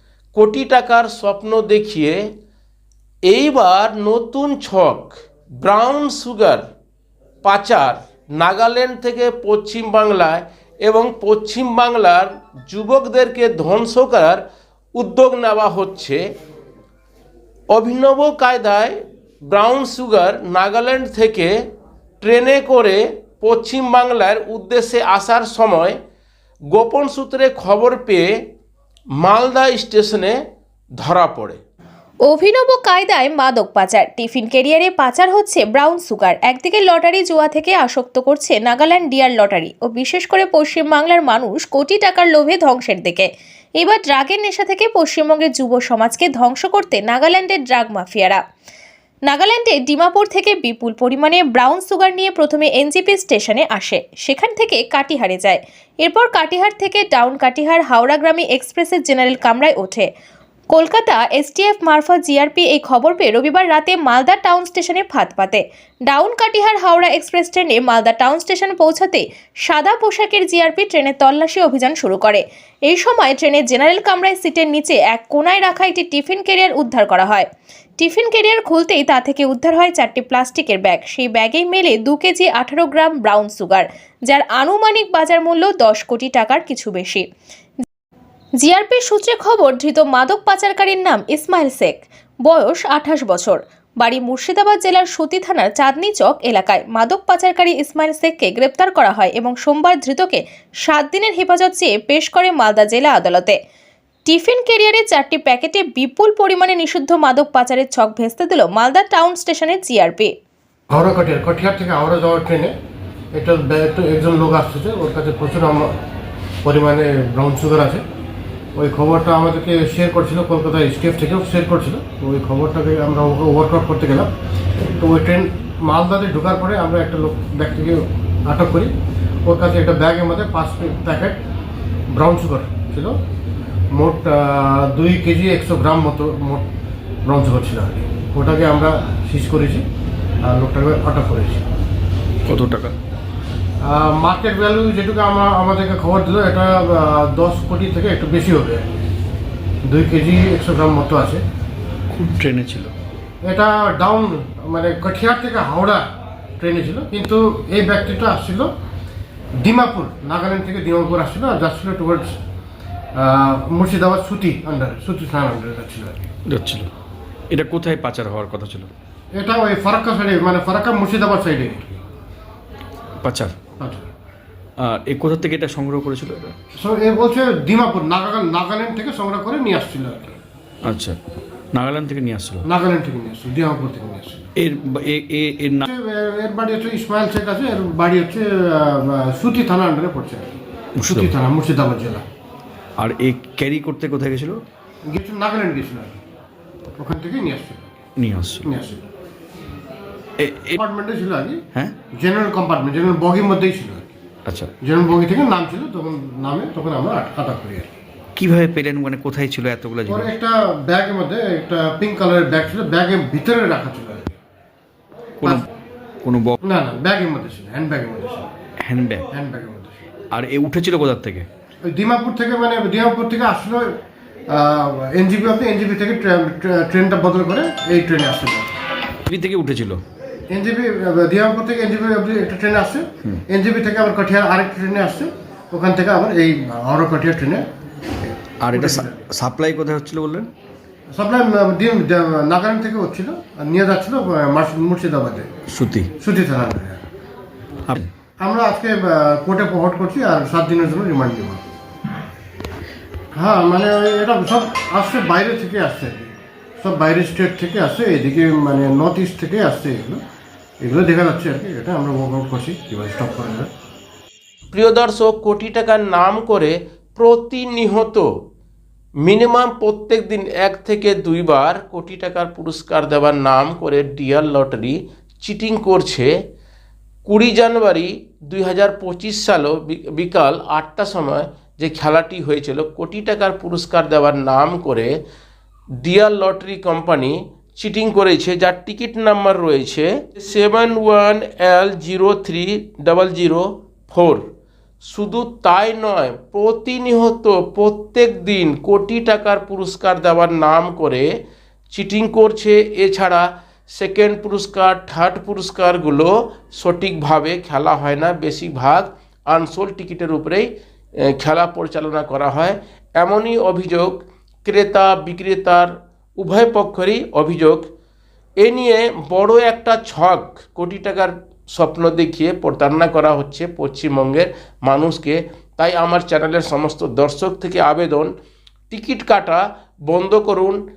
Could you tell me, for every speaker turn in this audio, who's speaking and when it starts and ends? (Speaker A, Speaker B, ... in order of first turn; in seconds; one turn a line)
Speaker A: 0.3-2.2
Speaker A: 3.3-6.6
Speaker A: 7.4-14.4
Speaker A: 15.0-16.2
Speaker A: 17.7-21.5
Speaker A: 22.2-26.0
Speaker A: 26.7-28.3
Speaker A: 29.2-30.4
Speaker A: 31.0-31.6
Speaker B: 32.3-43.3
Speaker B: 43.8-48.4
Speaker B: 49.3-60.1
Speaker B: 60.7-77.5
Speaker B: 78.0-87.2
Speaker B: 88.6-103.6
Speaker B: 104.3-110.3
Speaker C: 110.9-112.7
Speaker C: 113.3-116.0
Speaker C: 116.6-118.0
Speaker C: 118.8-124.3
Speaker C: 125.0-128.9
Speaker C: 129.5-131.4
Speaker C: 132.1-133.2
Speaker C: 133.9-136.7
Speaker C: 137.2-139.8
Speaker C: 140.4-141.7
Speaker D: 142.5-143.0
Speaker C: 143.8-148.9
Speaker C: 149.8-151.4
Speaker D: 152.1-152.9
Speaker C: 153.4-156.1
Speaker C: 156.6-158.7
Speaker C: 159.6-162.4
Speaker C: 163.2-166.2
Speaker D: 166.5-166.9
Speaker D: 167.5-168.9
Speaker C: 169.3-172.0
Speaker D: 173.2-173.5
Speaker C: 173.8-174.1
Speaker D: 174.8-176.5
Speaker C: 176.8-180.4
Speaker D: 180.8-181.2
Speaker D: 181.7-182.7
Speaker C: 182.6-184.5
Speaker D: 184.6-185.9
Speaker C: 185.9-190.5
Speaker D: 191.0-191.3
Speaker C: 191.0-192.2
Speaker D: 193.0-194.6
Speaker C: 195.1-196.2
Speaker C: 197.0-197.9
Speaker D: 198.2-198.7
Speaker C: 198.6-199.0
Speaker D: 200.4-200.8
Speaker C: 200.8-201.6
Speaker C: 202.2-204.1
Speaker D: 204.5-204.7
Speaker C: 204.8-207.9
Speaker D: 208.4-210.3
Speaker C: 210.1-214.3
Speaker D: 216.2-216.6
Speaker C: 216.6-218.5
Speaker D: 218.8-219.3
Speaker C: 219.3-220.0
Speaker D: 220.3-221.5
Speaker C: 221.9-223.9
Speaker C: 224.5-228.7
Speaker D: 229.3-230.0
Speaker C: 230.5-237.7
Speaker D: 238.6-240.5
Speaker C: 238.7-239.2
Speaker C: 241.1-245.5
Speaker D: 245.7-246.1
Speaker C: 246.2-247.0
Speaker C: 248.4-251.6
Speaker C: 253.3-260.2
Speaker C: 260.8-263.7
Speaker A: 264.7-268.3
Speaker A: 269.2-276.3
Speaker A: 277.2-285.1
Speaker A: 286.0-294.4
Speaker A: 295.0-301.3
Speaker A: 301.9-310.7
Speaker A: 311.3-317.9
Speaker A: 318.6-328.3
Speaker A: 328.9-330.8